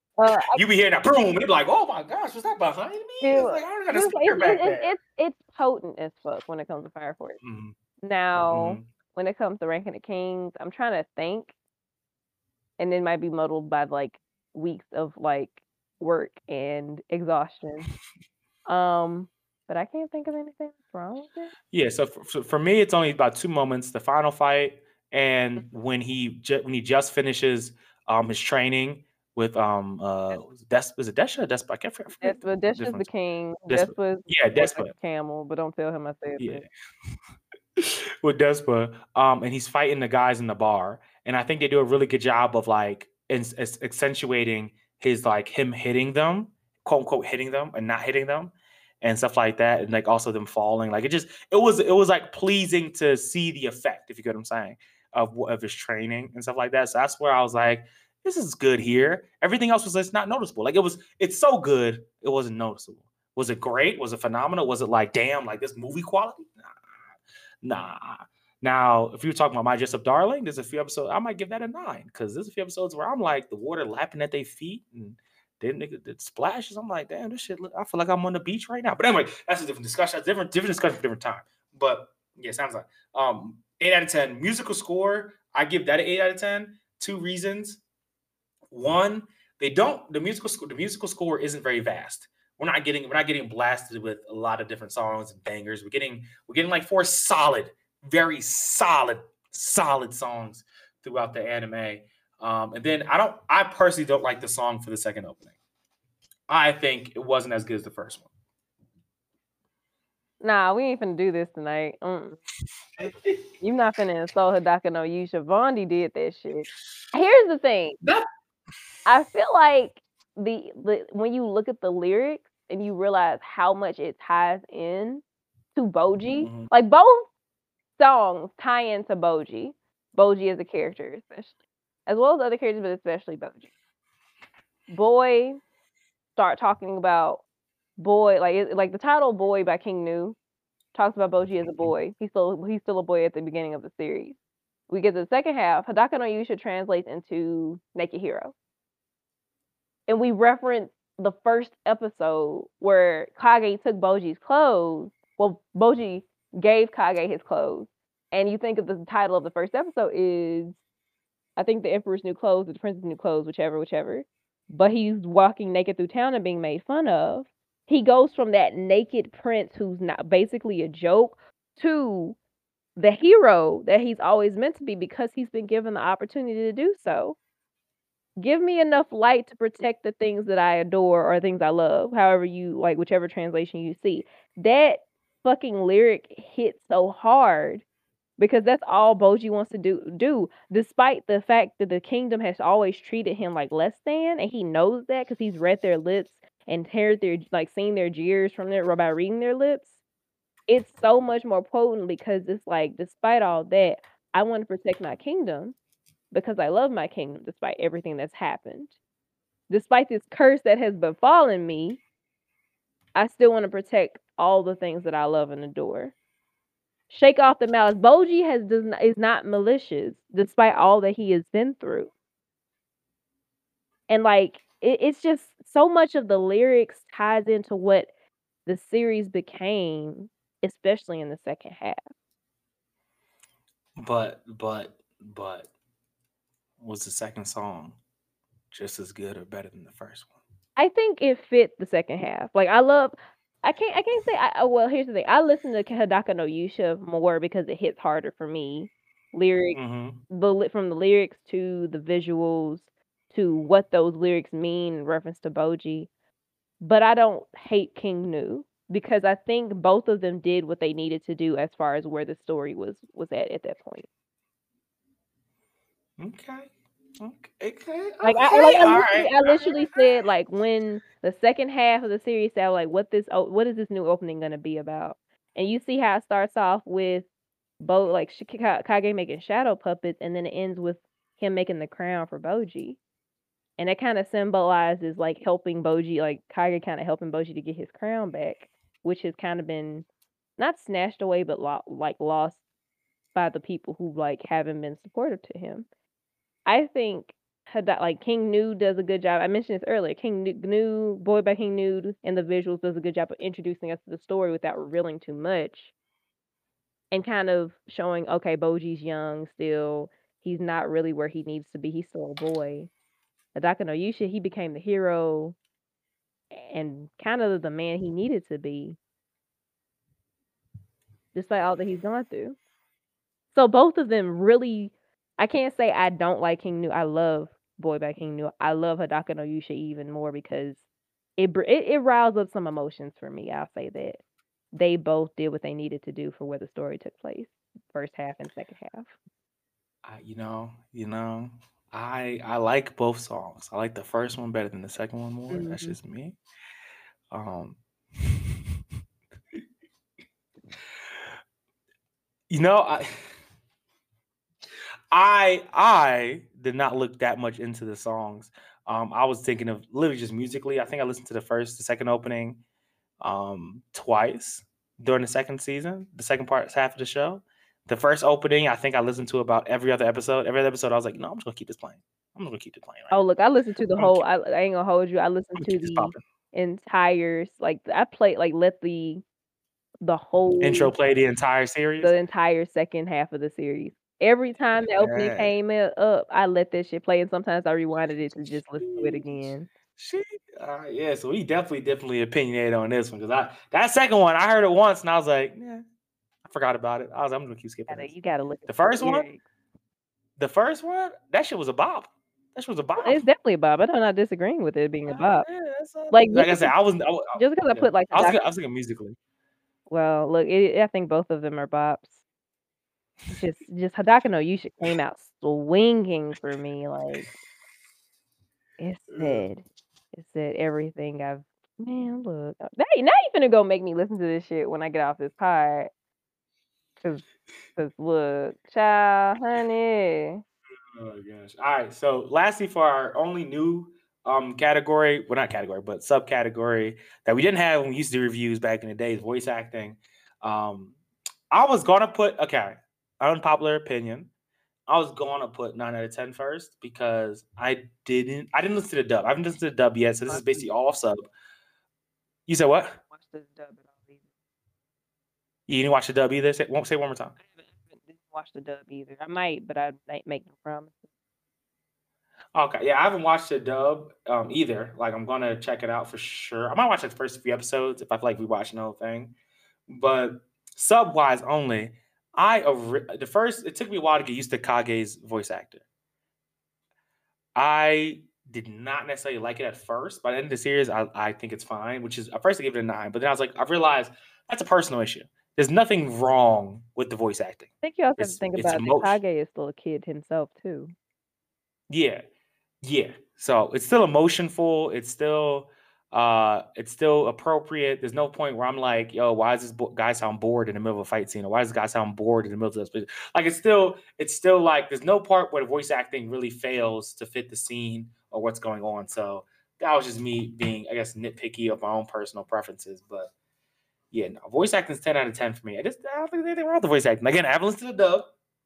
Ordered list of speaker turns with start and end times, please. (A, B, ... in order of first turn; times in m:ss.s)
0:00.2-0:00.6 A
0:00.5-0:04.9 B
0:03.2-0:07.4 A
0:07.4-0:07.7 B
0:08.0-0:11.5 A
0:08.5-0:08.9 B
0:12.8-0:17.9 A
0:18.7-0:21.5 A
0:21.7-0:33.1 B
0:32.2-0:36.6 A
0:33.7-0:34.9 B
0:36.4-0:36.6 B
0:37.8-1:06.8 B
1:07.6-1:27.8 B
1:28.7-1:45.5 B
1:46.5-1:48.3 B
1:50.4-1:52.4 A
1:53.0-1:53.4 B
1:53.6-1:58.0 A
1:59.0-2:05.2 A
2:05.7-2:07.3 A
2:06.4-2:06.7 B
2:08.0-2:11.5 A
2:12.0-2:13.7 A
2:14.9-2:15.6 A
2:16.4-2:17.4 A
2:18.0-2:20.4 A
2:20.9-2:24.4 A
2:24.9-2:28.5 A
2:30.1-2:40.8 A
2:41.6-2:52.4 A
2:53.0-2:57.4 A
2:58.4-3:07.8 A
3:08.4-3:20.0 A
3:20.7-3:25.8 A
3:26.3-3:29.0 A
3:29.7-3:32.0 A
3:33.1-3:36.1 A
3:37.1-3:42.1 A
3:44.1-3:48.1 A
3:48.6-3:52.0 A
3:54.0-3:55.7 B
3:56.8-3:58.0 B
3:58.7-4:00.3 B
4:00.8-4:09.8 A
4:09.7-4:10.2 B
4:10.3-4:16.1 A
4:16.8-4:24.1 A
4:26.2-4:30.0 B
4:28.2-4:37.3 A
4:37.8-4:43.0 A
4:43.8-4:50.0 A
4:50.6-4:52.6 A
4:53.3-4:55.9 A
4:56.6-5:05.9 A
5:07.1-5:12.9 A
5:13.5-5:15.6 A
5:16.5-5:19.0 A
5:21.3-5:22.6 A
5:23.5-5:30.8 A
5:31.4-5:34.2 A
5:34.7-5:39.2 A
5:40.0-5:46.4 B
5:45.5-5:46.0 A
5:47.3-5:48.6 B
5:51.1-5:51.3 B
5:52.5-5:53.1 B
5:55.1-6:02.6 B
6:03.2-6:13.2 B
6:13.1-6:19.2 A
6:13.9-6:14.2 B
6:15.6-6:16.2 B
6:20.0-6:20.9 A
6:20.6-6:22.1 B
6:22.0-6:29.7 A
6:25.0-6:25.5 B
6:28.8-6:35.8 B
6:36.4-6:38.1 B
6:37.9-6:39.4 A
6:38.7-6:39.3 B
6:40.4-6:43.2 B
6:43.0-6:45.5 A
6:45.1-6:49.2 B
6:46.1-6:46.7 A
6:47.3-6:48.4 A
6:49.9-6:52.2 A
6:53.3-6:57.3 A
6:58.8-7:05.9 A
6:59.1-6:59.4 B
7:07.0-7:10.4 A
7:10.9-7:21.0 B
7:21.5-7:24.3 B
7:24.9-7:31.3 B
7:30.2-7:30.7 A
7:32.5-7:33.0 B
7:33.1-7:34.2 A
7:35.7-7:37.3 B
7:37.4-7:41.1 A
7:42.5-7:49.3 B
7:49.9-7:55.8 B
7:57.5-8:09.2 B
8:07.8-8:10.9 A
8:11.9-8:12.2 B
8:12.8-8:33.3 B
8:34.1-8:38.3 B